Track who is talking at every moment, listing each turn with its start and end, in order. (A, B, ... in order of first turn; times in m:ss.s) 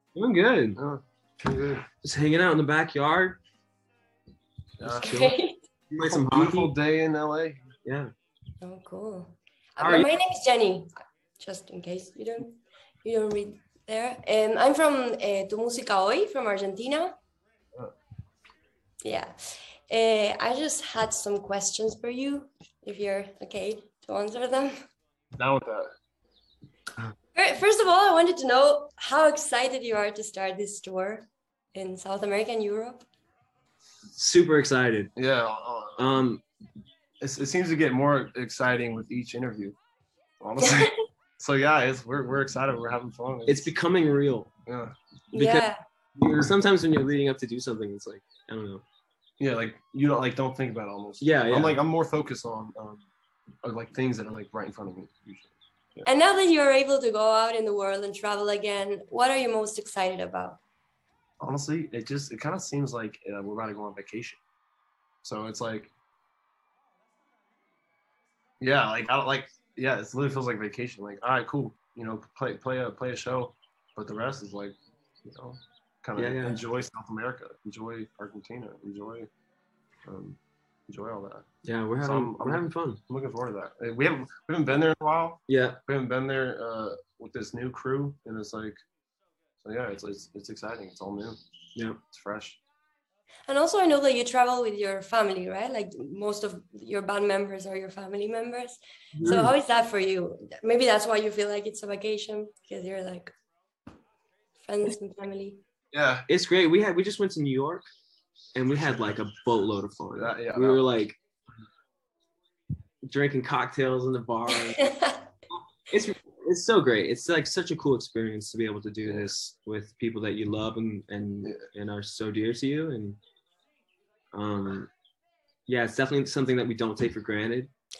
0:00.2-0:00.8 A
0:00.8-0:01.9 B
0:02.0-0:03.4 A
0:04.8-0:05.1 B
0:04.8-0:05.6 C
0:04.9-0:05.4 A
0:05.9-0:06.8 A
0:06.0-0:07.7 B
0:07.8-0:08.1 A
0:08.6-0:17.2 C
0:09.8-0:10.1 A
0:19.0-0:19.4 C
0:19.9-0:24.8 C
0:25.4-0:25.9 B
0:27.4-0:33.1 C
0:34.2-0:35.1 A
0:35.2-0:36.0 B
0:36.0-0:36.4 A
0:37.2-0:39.8 B
0:40.4-0:43.7 B
0:40.6-0:41.0 C
0:43.5-0:44.5 A
0:44.7-0:44.9 B
0:45.3-0:45.8 C
0:45.4-0:48.8 A
0:49.4-0:53.0 B
0:51.2-0:51.8 A
0:53.6-0:56.1 B
0:56.0-1:00.6 C
1:01.4-1:04.4 B
1:05.2-1:05.9 B
1:08.6-1:19.3 B
1:16.2-1:16.6 A
1:20.1-1:20.4 B
1:20.9-1:21.5 B
1:21.6-1:23.0 A
1:22.0-1:28.8 B
1:25.5-1:25.8 A
1:29.6-1:31.4 B
1:32.1-1:32.6 B
1:33.5-1:43.3 C
1:39.2-1:39.5 A
1:44.6-1:45.6 C
1:45.9-1:46.3 B
1:46.3-1:47.9 A
1:48.6-1:51.2 A
1:50.2-1:50.8 B
1:53.1-1:54.8 A
1:54.7-1:55.2 C
1:55.9-2:03.2 A
2:04.3-2:04.9 A
2:05.7-2:07.7 A